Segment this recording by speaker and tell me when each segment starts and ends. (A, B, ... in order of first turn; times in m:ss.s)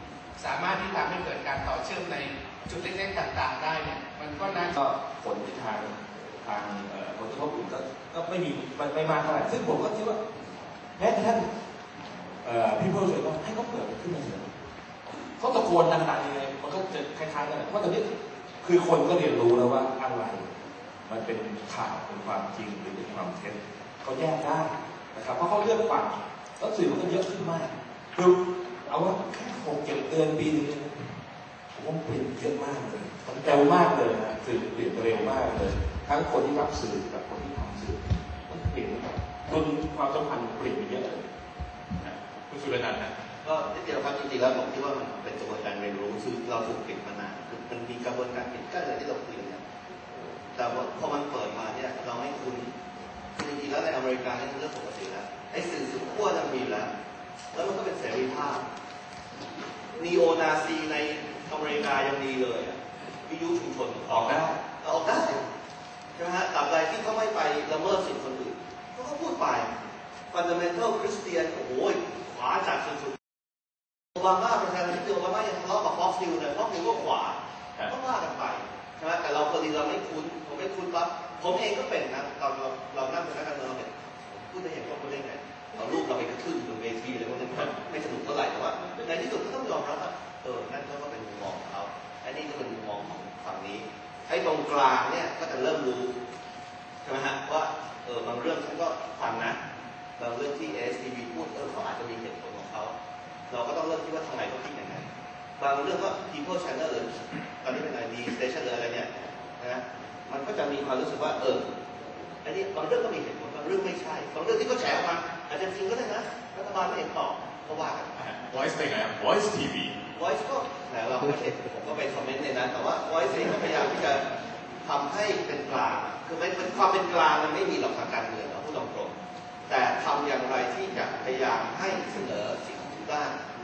0:00.4-0:04.5 A
0:04.6-0:10.2 B
0:11.0-0:11.5 B
0:12.4-0:14.5 B
0:15.4-0:20.5 B
0:21.1-0:30.9 B
0:31.7-0:41.2 B
0:42.0-0:43.1 C
0:43.4-0:49.6 D
0:50.6-0:52.7 D
0:53.4-0:56.9 D
0:57.5-0:58.6 D
0:59.9-1:05.4 D
1:06.2-1:09.7 D
1:10.3-1:13.2 D
1:14.1-1:23.9 D
1:24.5-1:36.1 D
1:37.0-1:39.6 D
1:40.2-1:42.9 D
1:43.5-1:45.0 D
1:45.6-1:51.7 D
1:52.4-1:58.1 D
1:58.2-2:00.0 C
2:00.1-2:04.2 D
2:04.8-2:09.1 D
2:09.7-2:13.4 D